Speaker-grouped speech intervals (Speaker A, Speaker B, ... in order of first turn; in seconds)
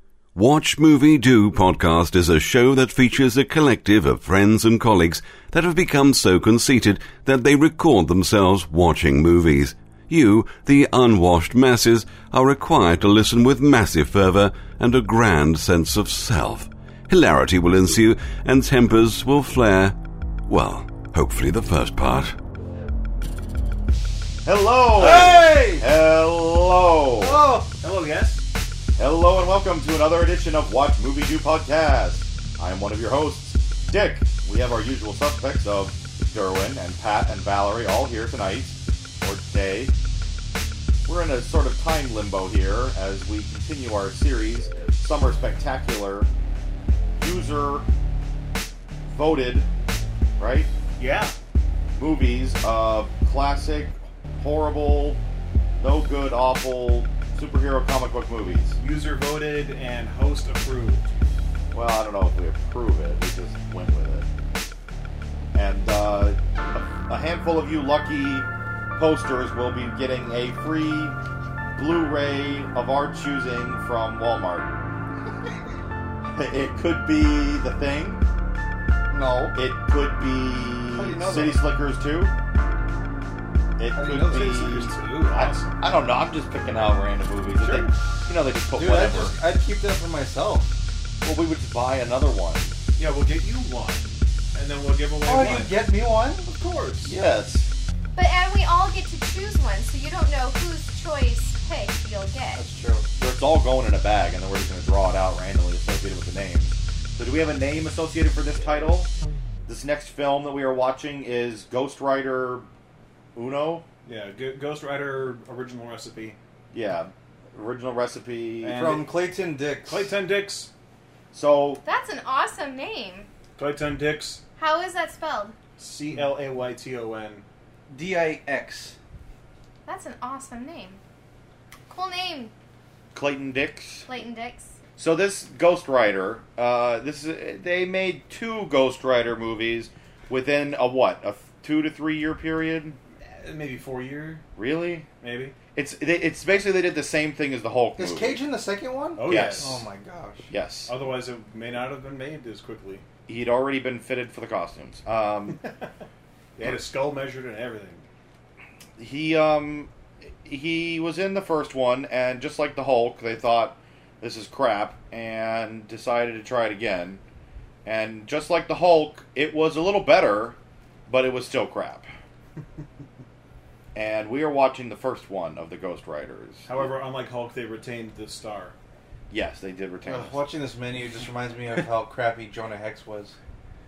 Speaker A: 0.3-19.9, 20.5-22.3
Speaker B: 24.4-27.4, 28.9-39.9, 41.0-46.3, 47.2-47.9, 49.1-49.7, 50.4-50.7, 52.0-55.2, 55.8-58.8, 61.7-64.3, 65.5-71.2, 71.7-74.8, 76.2-78.2, 79.5-82.3, 83.8-89.4, 91.2-92.8, 97.0-97.7, 103.2-109.1, 109.7-112.7, 113.3-113.8, 116.7-118.8, 121.3-121.8, 133.1-134.1, 135.0-143.0, 144.6-145.1, 145.7-148.4, 149.2-149.7, 150.5-150.9, 153.3-155.6, 159.0-167.2, 167.8-172.1, 173.9-176.7, 179.3-180.4
Speaker C: 24.9-25.9, 27.2-27.7, 79.1-79.5, 80.9-81.6, 83.9-84.6, 88.8-90.7, 95.2-96.5, 102.5-103.1, 118.8-120.1, 127.9-129.0, 148.0-150.5, 180.1-183.3
Speaker D: 27.8-28.4, 51.0-51.3, 58.8-61.0, 84.0-85.8, 87.6-88.0, 93.0-97.1, 114.0-116.4, 118.6-119.1, 119.8-120.7, 123.6-124.4, 125.8-127.4, 143.2-144.4, 145.2-145.6, 149.2-149.8, 150.9-153.0, 156.6-158.0, 176.7-178.7
Speaker E: 98.1-102.6, 121.8-123.3, 124.6-125.5, 129.8-131.0, 131.9-132.5, 134.1-134.8